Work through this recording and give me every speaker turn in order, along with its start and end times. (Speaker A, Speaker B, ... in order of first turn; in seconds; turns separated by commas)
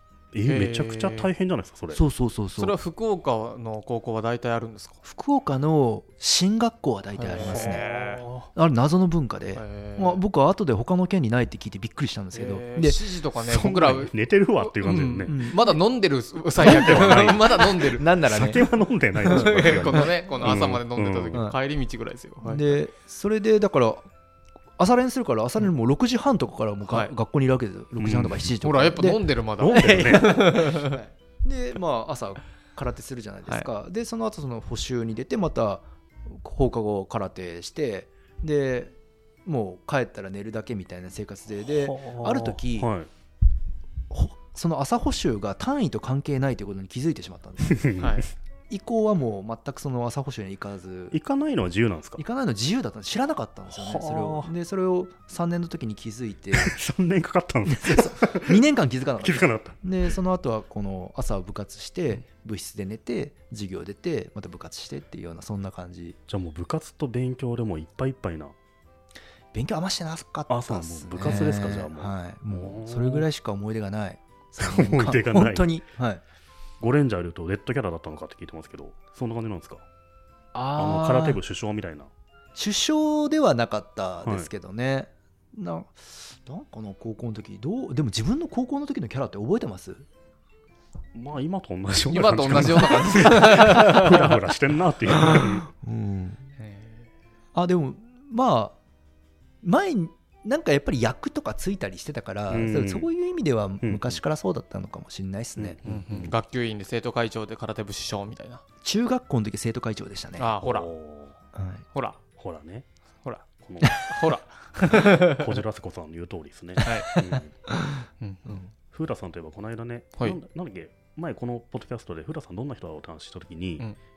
Speaker A: 0.3-2.0, Speaker B: 0.4-1.3, Speaker C: 1.9-2.8, Speaker B: 2.5-5.0, Speaker C: 5.0-7.9, Speaker B: 7.2-8.3, Speaker A: 7.4-8.5, Speaker C: 8.5-13.0, Speaker B: 9.5-10.2, Speaker B: 12.3-18.2, Speaker A: 13.3-15.5, Speaker C: 15.3-15.8, Speaker A: 16.6-21.4, Speaker C: 16.6-18.6, Speaker C: 19.2-20.2, Speaker B: 19.2-22.8, Speaker C: 22.4-24.1, Speaker C: 24.8-38.9, Speaker B: 26.9-27.1, Speaker A: 27.9-28.6, Speaker B: 28.6-31.0, Speaker A: 29.6-30.3, Speaker C: 39.4-42.9, Speaker A: 41.6-43.1, Speaker C: 44.1-48.0, Speaker A: 47.7-48.2, Speaker B: 47.9-48.3, Speaker C: 48.7-51.1, Speaker A: 51.1-52.2, Speaker C: 52.2-56.8, Speaker A: 53.7-54.5, Speaker A: 56.5-58.6, Speaker C: 57.7-66.2, Speaker A: 59.2-59.8, Speaker A: 66.3-68.5, Speaker C: 69.5-76.2, Speaker A: 70.5-73.2, Speaker A: 74.6-75.7, Speaker A: 76.8-79.8, Speaker C: 80.5-81.4, Speaker A: 80.8-82.1, Speaker C: 82.5-90.0, Speaker A: 91.1-95.7, Speaker B: 92.1-94.4, Speaker C: 95.1-96.5, Speaker B: 96.6-97.1, Speaker C: 97.5-98.8, Speaker C: 99.6-105.8, Speaker A: 102.5-103.1, Speaker A: 103.8-104.2, Speaker A: 105.5-106.3, Speaker B: 105.8-108.6, Speaker C: 108.8-110.5, Speaker B: 110.4-110.9, Speaker A: 110.6-111.4, Speaker C: 111.5-111.8, Speaker B: 111.9-112.2, Speaker A: 112.3-112.9, Speaker B: 113.2-115.5, Speaker A: 113.5-114.0, Speaker A: 114.9-117.5, Speaker B: 116.8-117.2, Speaker C: 117.0-117.9, Speaker B: 118.2-118.6, Speaker A: 118.9-123.9